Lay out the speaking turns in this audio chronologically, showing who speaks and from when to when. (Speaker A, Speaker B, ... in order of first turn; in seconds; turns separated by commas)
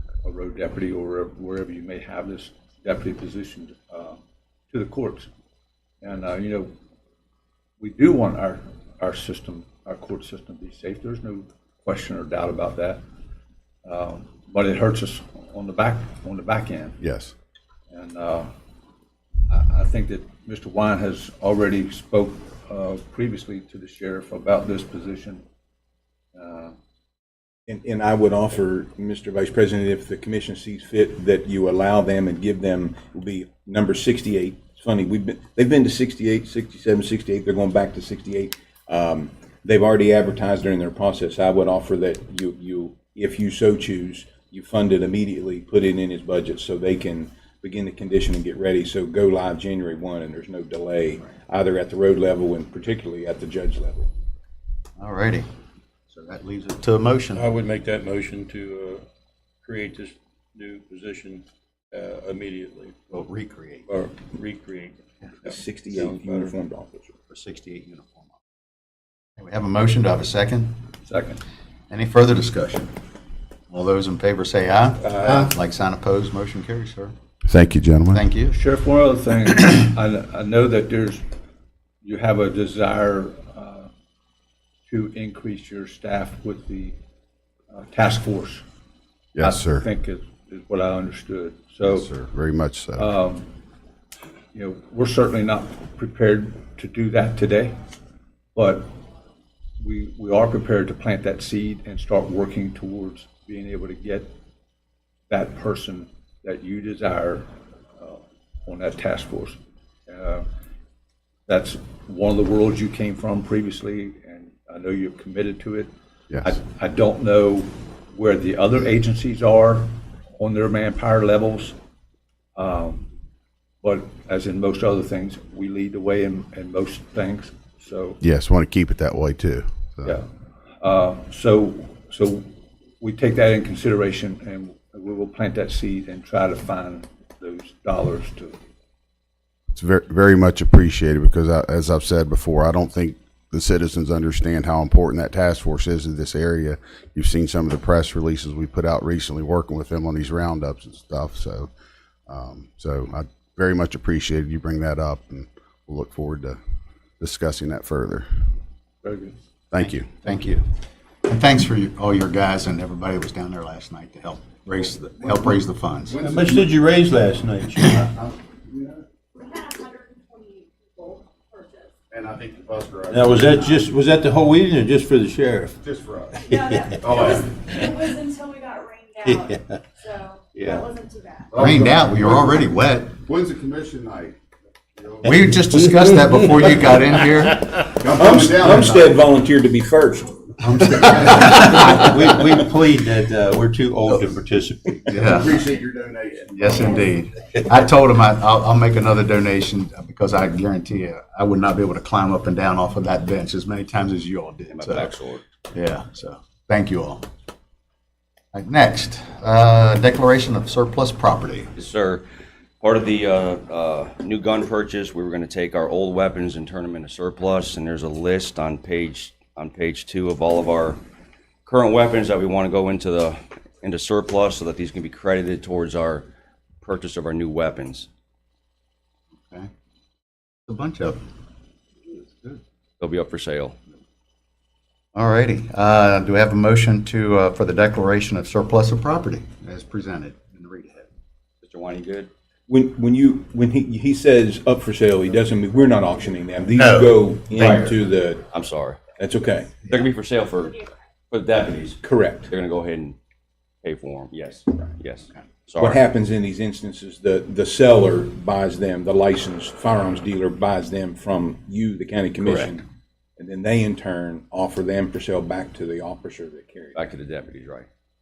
Speaker A: 0.2-4.2, Speaker A: 4.7-5.3, Speaker A: 6.0-6.7, Speaker A: 7.8-13.0, Speaker A: 13.8-17.0, Speaker B: 17.0-17.3, Speaker A: 17.9-18.5, Speaker A: 19.5-25.4, Speaker A: 26.4-26.8, Speaker C: 27.7-54.1, Speaker D: 55.0-55.5, Speaker D: 56.1-57.5, Speaker E: 57.4-59.0, Speaker E: 59.6-63.0, Speaker D: 63.1-63.9, Speaker E: 63.9-65.0, Speaker C: 65.5-67.1, Speaker E: 65.9-66.6, Speaker D: 67.3-68.3, Speaker D: 69.4-70.8, Speaker A: 71.1-71.4, Speaker D: 71.9-72.9, Speaker D: 73.7-77.1, Speaker C: 75.0-75.5, Speaker B: 77.5-78.2, Speaker D: 78.1-78.5, Speaker A: 78.5-81.2, Speaker A: 82.0-83.9, Speaker A: 84.9-87.0, Speaker A: 87.7-88.6, Speaker B: 89.3-89.8, Speaker A: 89.4-92.1, Speaker B: 91.9-93.1, Speaker A: 93.0-93.5, Speaker A: 94.5-97.8, Speaker A: 98.5-98.9, Speaker A: 99.8-104.3, Speaker A: 105.3-110.5, Speaker A: 111.5-115.9, Speaker A: 116.4-121.8, Speaker A: 122.6-123.1, Speaker A: 123.8-128.2, Speaker B: 128.2-130.2, Speaker A: 130.8-132.5, Speaker A: 133.0-138.6, Speaker B: 139.7-151.7, Speaker B: 152.3-156.6, Speaker B: 157.2-158.3, Speaker A: 159.0-159.4, Speaker B: 159.7-160.2, Speaker D: 159.8-160.6, Speaker D: 161.3-166.2, Speaker F: 166.1-166.6, Speaker E: 166.2-168.1, Speaker F: 168.7-169.0, Speaker G: 169.4-171.9, Speaker F: 172.1-173.9, Speaker E: 173.1-175.8, Speaker F: 175.8-176.4, Speaker G: 176.4-181.5, Speaker F: 177.0-177.5, Speaker F: 181.5-182.6, Speaker D: 181.5-183.2, Speaker F: 183.2-184.4, Speaker F: 185.0-185.5, Speaker D: 185.2-189.2, Speaker F: 188.0-188.8, Speaker C: 188.1-190.4, Speaker D: 190.6-192.4, Speaker F: 191.0-191.3, Speaker C: 191.1-191.5, Speaker E: 192.1-195.1, Speaker D: 195.1-195.7, Speaker F: 195.2-197.1, Speaker D: 196.5-205.2, Speaker H: 204.7-205.4, Speaker D: 205.7-207.2, Speaker D: 208.5-211.7, Speaker H: 211.8-212.2, Speaker H: 212.8-221.0, Speaker H: 221.7-226.3, Speaker H: 226.8-228.1, Speaker D: 229.4-229.7, Speaker D: 230.7-231.2, Speaker D: 232.1-232.6, Speaker H: 233.0-233.8, Speaker D: 235.2-241.1, Speaker H: 241.6-242.3, Speaker C: 242.7-248.4, Speaker D: 246.7-247.8, Speaker H: 247.6-249.0, Speaker C: 249.2-249.8, Speaker H: 249.9-253.2, Speaker C: 252.0-252.5, Speaker H: 253.8-256.0, Speaker C: 255.8-262.8, Speaker C: 263.4-267.0, Speaker H: 266.9-267.9